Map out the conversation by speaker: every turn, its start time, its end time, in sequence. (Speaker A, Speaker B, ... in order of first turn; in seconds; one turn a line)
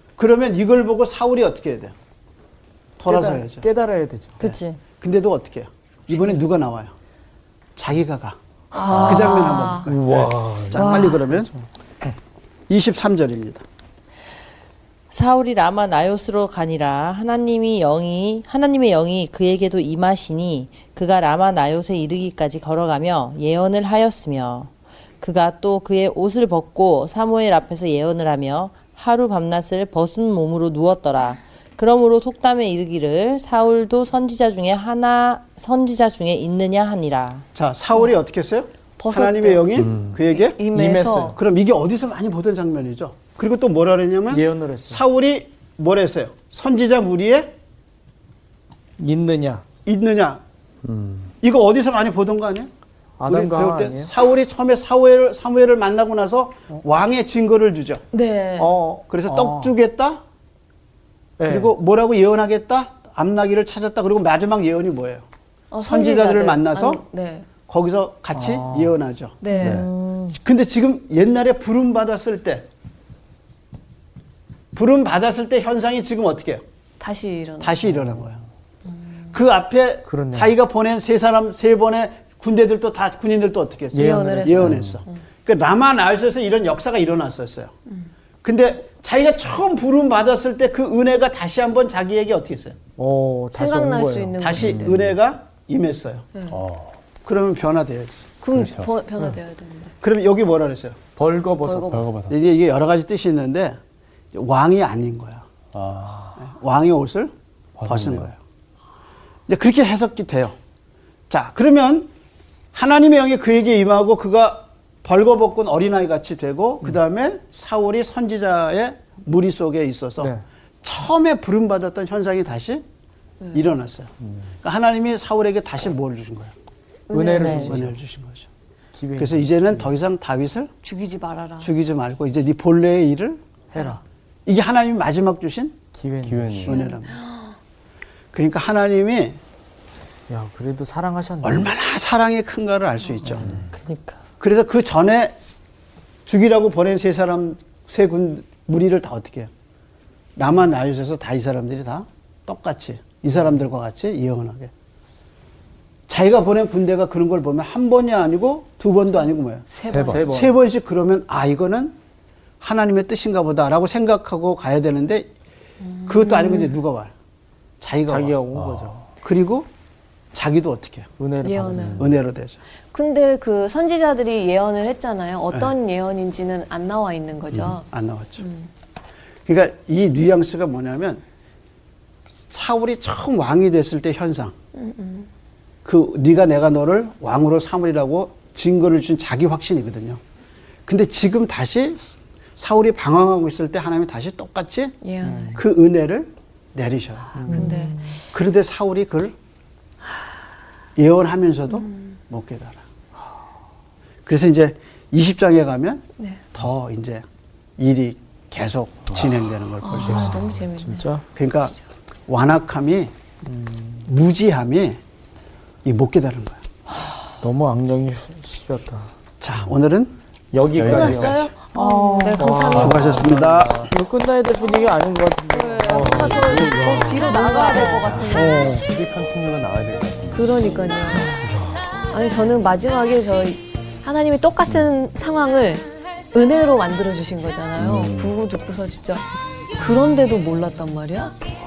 Speaker A: 0.2-1.9
Speaker A: 3.0-3.7
Speaker B: 3.1-4.5
Speaker C: 4.4-4.8
Speaker A: 4.4-6.9
Speaker B: 6.1-6.4
Speaker A: 7.8-11.5
Speaker D: 8.7-9.9
Speaker E: 8.9-9.3
Speaker B: 9.9-11.7
Speaker D: 10.8-11.2
Speaker A: 12.7-13.6
Speaker C: 15.1-37.5
Speaker A: 37.5-40.6
Speaker D: 39.0-41.4
Speaker E: 39.8-40.2
Speaker B: 40.7-41.4
Speaker A: 41.2-47.5
Speaker B: 44.3-45.0
Speaker B: 49.0-49.6
Speaker A: 49.9-50.4
Speaker E: 50.8-51.3
Speaker A: 51.4-52.7
Speaker B: 53.2-54.1
Speaker A: 53.3-58.0
Speaker D: 58.1-58.8
Speaker B: 58.6-59.8
Speaker A: 59.1-60.2
Speaker B: 61.4-61.7
Speaker A: 61.5-65.2
Speaker D: 65.7-67.5
Speaker A: 65.8-67.0
Speaker A: 67.7-69.8
Speaker B: 68.3-69.0
Speaker D: 69.4-69.9
Speaker C: 69.5-70.4
Speaker A: 70.3-72.7
Speaker A: 74.7-76.6
Speaker D: 77.0-78.1
Speaker A: 77.6-78.4
Speaker A: 79.3-87.7
Speaker B: 80.1-80.6
Speaker B: 83.9-84.9
Speaker D: 84.0-85.2
Speaker A: 88.4-92.8
Speaker B: 93.0-94.7
Speaker D: 93.5-95.1
Speaker A: 94.4-96.3
Speaker E: 94.6-95.1
Speaker D: 96.3-96.6
Speaker E: 96.5-96.9
Speaker A: 97.2-98.2
Speaker D: 98.4-100.0
Speaker E: 98.5-98.9
Speaker A: 100.0-101.0
Speaker B: 101.2-102.1
Speaker D: 101.7-102.1
Speaker E: 101.9-102.4
Speaker A: 102.3-103.8
Speaker A: 104.3-105.5
Speaker E: 105.7-106.4
Speaker A: 106.4-107.3
Speaker E: 107.8-108.3
Speaker A: 107.8-108.4
Speaker A: 109.5-110.5
Speaker A: 111.3-112.1
Speaker A: 112.7-120.3
Speaker B: 120.2-120.4
Speaker A: 120.8-122.8
Speaker D: 123.4-123.7
Speaker A: 123.5-126.5
Speaker D: 127.1-127.8
Speaker B: 127.1-128.0
Speaker C: 127.3-127.7
Speaker A: 127.4-128.5
Speaker B: 128.9-129.9
Speaker A: 129.2-130.7
Speaker D: 130.8-131.7
Speaker A: 131.6-133.4
Speaker B: 133.7-134.0
Speaker A: 134.5-135.8
Speaker B: 135.9-136.7
Speaker E: 136.2-136.8
Speaker A: 136.6-137.2
Speaker D: 136.7-137.6
Speaker A: 138.3-139.4
Speaker B: 140.3-141.7
Speaker A: 141.4-143.6
Speaker C: 143.7-144.2
Speaker A: 144.4-145.4
Speaker A: 146.3-149.5
Speaker A: 150.4-154.7
Speaker A: 156.1-162.0
Speaker D: 159.7-160.4
Speaker B: 159.8-160.6
Speaker A: 162.6-165.3
Speaker D: 165.8-166.7
Speaker A: 166.1-167.1
Speaker A: 167.8-168.4
Speaker B: 168.1-169.0
Speaker E: 168.5-169.0
Speaker A: 169.2-169.7
Speaker A: 170.3-171.1
Speaker B: 171.2-172.0
Speaker D: 171.4-172.1
Speaker A: 171.9-172.6
Speaker D: 172.9-177.9
Speaker A: 177.5-178.4
Speaker D: 178.4-178.7
Speaker A: 179.5-181.2
Speaker A: 182.5-184.6
Speaker D: 184.7-185.3
Speaker A: 185.8-190.2
Speaker A: 190.9-195.0
Speaker D: 195.0-195.6
Speaker B: 195.2-195.6
Speaker A: 195.6-197.5
Speaker B: 197.3-198.2
Speaker D: 197.5-198.1
Speaker A: 198.3-199.3
Speaker A: 201.0-202.8
Speaker D: 201.8-202.1
Speaker A: 204.3-206.0
Speaker A: 206.5-207.2
Speaker A: 207.8-210.5
Speaker D: 209.8-211.2
Speaker B: 210.0-211.2
Speaker A: 211.3-211.7
Speaker A: 212.3-213.1
Speaker B: 213.5-214.1
Speaker A: 214.1-215.0
Speaker A: 215.8-216.6
Speaker B: 217.4-219.1
Speaker A: 219.4-220.2
Speaker B: 220.5-221.5
Speaker E: 220.7-221.6
Speaker D: 220.8-223.2
Speaker C: 221.7-222.6
Speaker B: 222.3-228.9
Speaker A: 222.7-223.9
Speaker E: 222.7-223.9
Speaker D: 225.5-228.8
Speaker C: 227.1-228.1
Speaker E: 228.1-230.9
Speaker D: 230.4-231.4
Speaker B: 231.1-231.9
Speaker D: 232.1-239.3
Speaker E: 237.8-238.3
Speaker D: 239.8-241.4